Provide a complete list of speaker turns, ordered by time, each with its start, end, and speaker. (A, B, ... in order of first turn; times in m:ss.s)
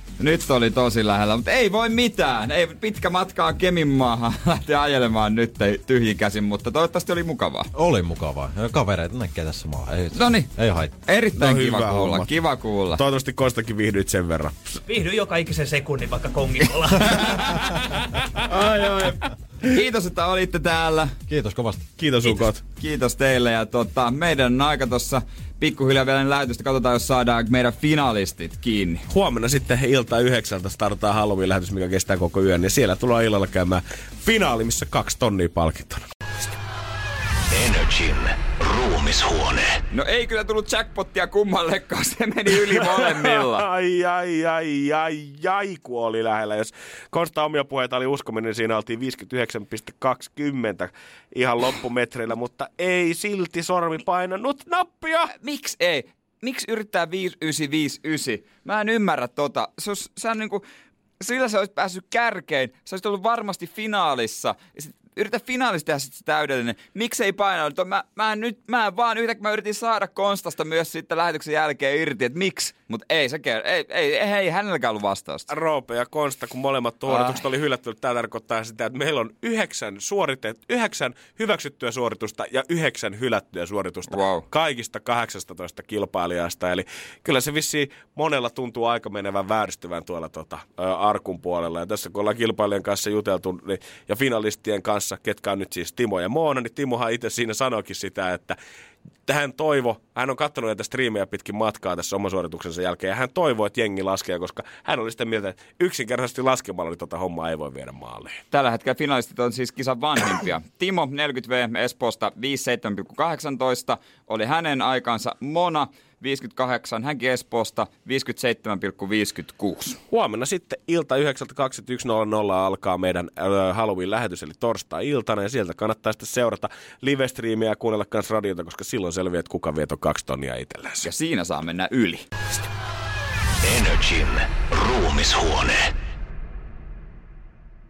0:00.2-0:07.7 A
0:07.7-0:11.0 B
0:10.1-0:10.5 A
0:11.0-0:13.0 A
0:11.4-0:12.4 C
0:12.9-0:14.8 C
0:14.9-0:17.7 D
0:18.5-0:21.1 A
0:21.3-0:21.9 B
0:22.0-0:22.6 C
0:22.2-0:29.0 A
0:29.1-0:36.0 C
0:37.6-0:38.2 E
0:38.7-0:39.5 E
0:39.9-0:43.6 A
0:42.8-0:55.3 C
0:55.4-1:00.6 A
1:01.2-1:15.5 A
1:15.5-1:38.6 C
1:17.1-1:17.4 A
1:24.1-1:24.4 A
1:39.2-1:48.4 C
1:48.5-2:00.0 A
2:00.1-2:11.1 C
2:11.0-2:12.2 A
2:13.7-2:14.4 E
2:14.9-2:15.7 E